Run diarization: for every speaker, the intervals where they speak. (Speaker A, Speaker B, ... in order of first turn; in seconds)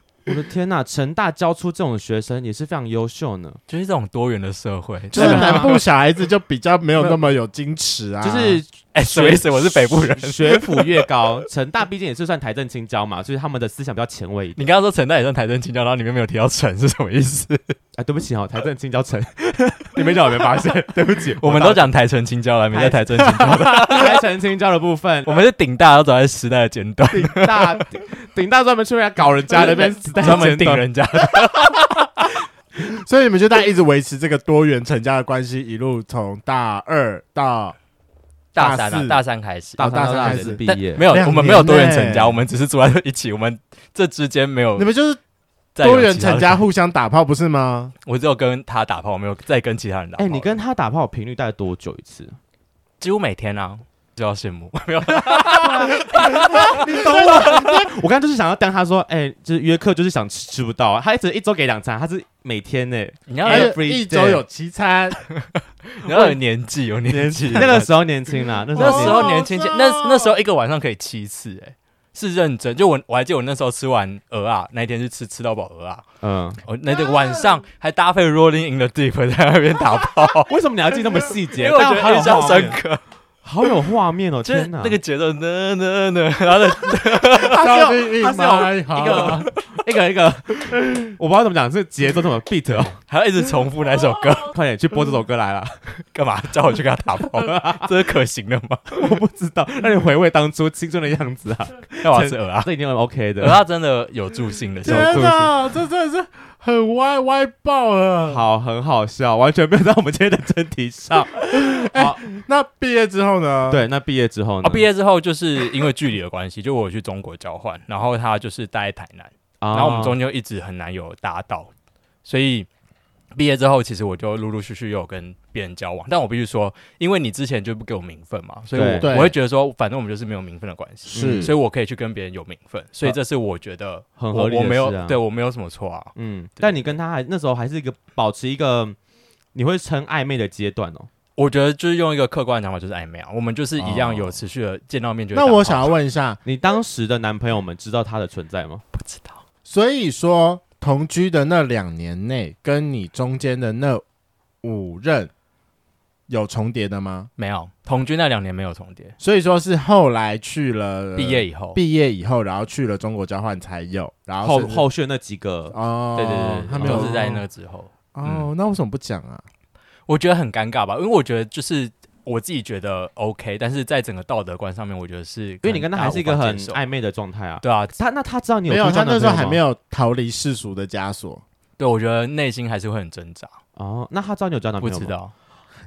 Speaker A: 0.3-3.6, 5.1-5.8, 8.2-14.7, 17.9-21.9, 22.7-25.3, 27.1-30.9, 39.8-41.0, 50.2-52.4, 55.5-64.4, 66.0-66.4, 67.1-69.4, 76.2-76.6, 80.5-82.8, 83.4-85.0, 87.4-93.0, 94.5-95.8, 97.3-97.9, 99.0-103.6, 104.8-105.5, 108.2-112.2, 113.7-114.8, 119.6-120.2, 128.7-129.1, 131.1-131.5, 134.2-135.2, 136.2-139.0, 139.5-141.1, 146.4-148.8, 164.4-165.8, 166.8-167.1, 175.6-179.6, 183.8-185.1
Speaker B: 3.7-5.8, 8.9-11.1, 14.6-17.8, 21.4-24.2, 25.2-27.8, 29.5-32.1, 38.5-44.9, 45.8-46.6, 48.0-50.6, 53.0-57.4, 63.3-63.7, 65.3-68.0, 68.8-76.0, 76.6-80.5, 81.5-83.0, 84.4-87.7, 89.0-89.5, 93.1-94.5, 96.1-99.1, 102.0-102.7, 103.4-105.3, 114.6-121.7, 122.2-122.7, 123.3-136.8, 141.3-145.9, 148.9-149.4, 157.4-159.2, 161.2-161.8, 166.2-168.5, 170.1-176.8, 177.6-177.9, 181.8-183.5, 184.8-185.3
Speaker C: 5.1-8.6, 32.8-37.8, 38.6-39.2, 39.8-42.4, 44.8-45.2, 45.8-47.9, 56.3-57.9, 63.5-65.2, 68.8-70.3, 87.5-89.5, 104.8-108.4, 111.5-113.8, 129.0-129.3, 131.1-131.5, 143.8-144.4, 145.3-146.4, 149.7-154.0, 154.6-155.3, 156.3-157.3, 159.2-164.8, 165.7-167.4, 168.1-169.4, 178.7-181.4